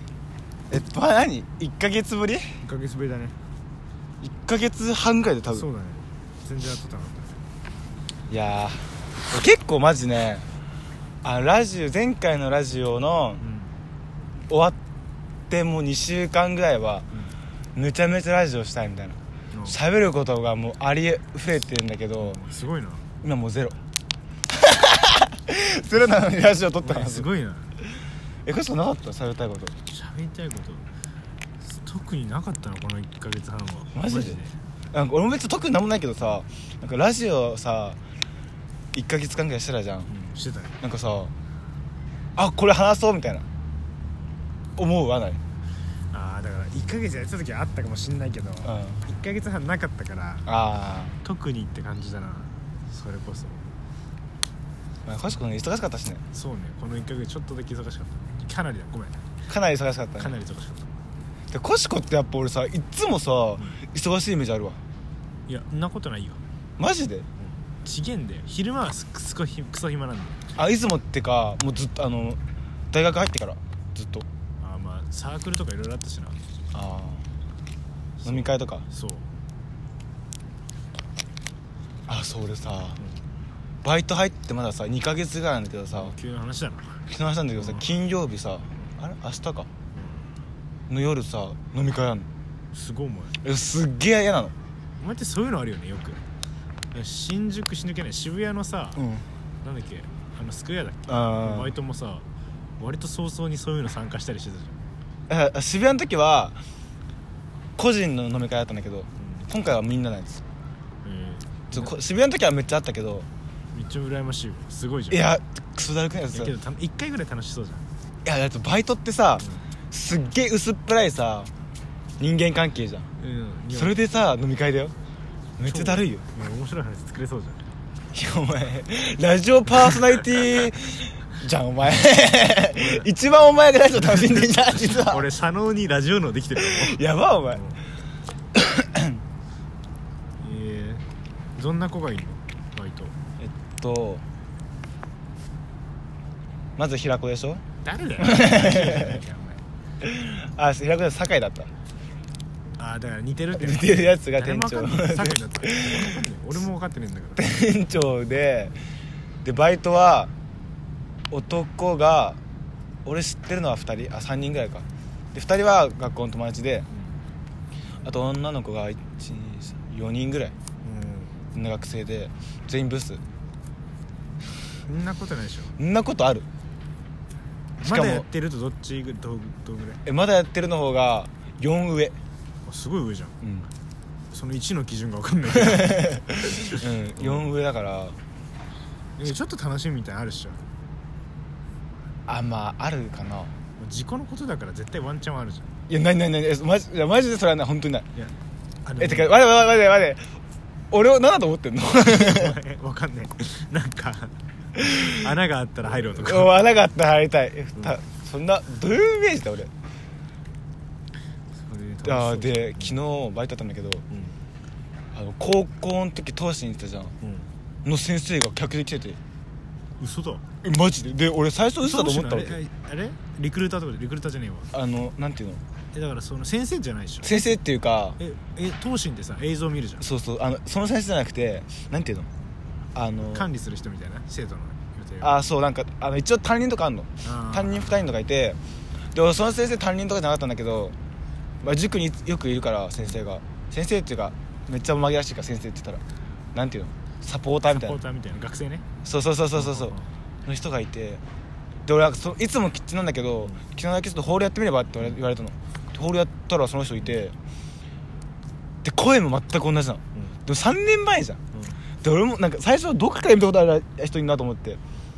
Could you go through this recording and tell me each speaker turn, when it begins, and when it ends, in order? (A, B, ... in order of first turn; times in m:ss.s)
0:00.7-0:02.5 A
0:02.6-0:03.4 B
0:04.2-0:05.7 A
0:05.5-0:07.4 B
0:08.3-0:10.4 A
0:11.2-0:13.4 A
0:13.4-0:13.7 B
0:14.5-0:14.8 A
0:15.5-0:17.1 A
0:17.8-0:22.4 A
0:19.5-0:19.8 B
0:22.2-0:23.0 B
0:23.2-0:23.8 A
0:24.5-0:27.3 A
0:26.8-0:27.7 B
0:28.5-0:29.8 A
0:29.9-0:30.9 B
0:31.7-0:34.6 B
0:33.9-0:34.4 A
0:34.9-0:38.0 A
0:38.9-0:40.1 A
0:40.1-0:40.8 B
0:40.8-0:41.3 A
0:42.4-0:43.5 A
0:44.8-0:45.4 A
0:46.1-0:50.5 B
0:48.6-0:49.0 A
0:50.5-0:51.2 A
0:51.2-0:53.6 B
0:55.1-0:56.2 A
0:56.3-0:59.2 B
0:59.5-1:00.4 A
1:00.2-1:00.9 B
1:01.5-1:04.8 A
1:05.5-1:06.4 B
1:06.8-1:07.3 A
1:07.4-1:10.4 B
1:10.6-1:12.4 A
1:12.9-1:14.3 A
1:14.6-1:16.4 B
1:16.7-1:17.2 A
1:18.2-1:19.3 B
1:18.2-1:18.8 A
1:22.1-1:23.0 A
1:23.8-1:26.1 A
1:26.0-1:27.1 B
1:27.1-1:29.7 A
1:27.6-1:27.9 B
1:30.0-1:30.3 B
1:30.9-1:32.3 A
1:32.7-1:33.4 B
1:33.4-1:34.5 A
1:35.0-1:36.2 B
1:36.9-1:39.0 B
1:39.0-1:39.2 A
1:39.6-1:42.3 B
1:41.1-1:41.8 A
1:42.8-1:44.8 B
1:45.3-1:46.6 A
1:47.8-1:50.4 A
1:49.2-1:49.5 B
1:51.0-1:51.9 B
1:51.7-1:53.3 A
1:53.7-1:55.2 B
1:55.1-1:56.5 A
1:56.3-1:57.8 B
1:58.2-2:01.5 A
2:02.2-2:03.1 A
2:03.2-2:04.0 B
2:03.7-2:04.9 A
2:05.6-2:06.2 A
2:05.6-2:07.7 B
2:08.1-2:15.3 A
2:12.7-2:13.1 B
2:14.2-2:17.8 B
2:16.6-2:17.6 A
2:18.5-2:19.2 A
2:20.4-2:21.0 B
2:21.6-2:23.2 B
2:23.4-2:24.2 A
2:26.8-2:27.6 A
2:27.8-2:29.6 B
2:28.2-2:29.2 A
2:30.0-2:31.7 A
2:32.8-2:37.5 B
2:33.6-2:36.1 A
2:37.4-2:38.8 A
2:39.4-2:40.3 A
2:41.3-2:42.4 A
2:43.0-2:46.9 A
2:48.0-2:50.6 A
2:50.8-2:51.4 B
2:51.5-2:53.2 A
2:54.9-2:55.7 B
2:55.8-2:56.5 A
2:57.8-2:58.3 A
2:57.8-3:00.0 B
3:00.0-3:02.2 A
3:02.6-3:03.4 B
3:03.4-3:03.7 A
3:04.3-3:07.4 B
3:05.6-3:08.2 A
3:09.2-3:10.6 B
3:12.3-3:13.5 A
3:13.8-3:15.7 B
3:15.9-3:18.1 A
3:18.8-3:19.4 B
3:19.0-3:20.2 A
3:20.9-3:22.6 A
3:22.0-3:26.6 B
3:24.8-3:25.1 A
3:26.2-3:29.7 A
3:31.6-3:33.0 B
3:32.0-3:34.0 A
3:34.1-3:34.4 B
3:35.1-3:37.1 A
3:37.2-3:37.5 B
3:37.8-3:39.2 A
3:40.0-3:40.4 B
3:40.6-3:42.6 A
3:41.8-3:44.7 B
3:44.7-3:45.6 A
3:45.9-3:47.3 B
3:47.2-3:48.2 A
3:48.2-3:50.1 B
3:50.0-3:52.3 A
3:53.0-3:53.5 A
3:53.3-3:55.3 B
3:55.2-3:58.6 A
3:57.2-3:58.0 B
3:59.1-4:01.0 A
4:01.6-4:06.0 A
4:06.5-4:08.0 A
4:07.7-4:08.8 B
4:09.0-4:11.2 A
4:09.6-4:10.1 B
4:11.9-4:17.4 A
4:18.8-4:21.4 A
4:21.5-4:21.8 B
4:22.0-4:24.8 A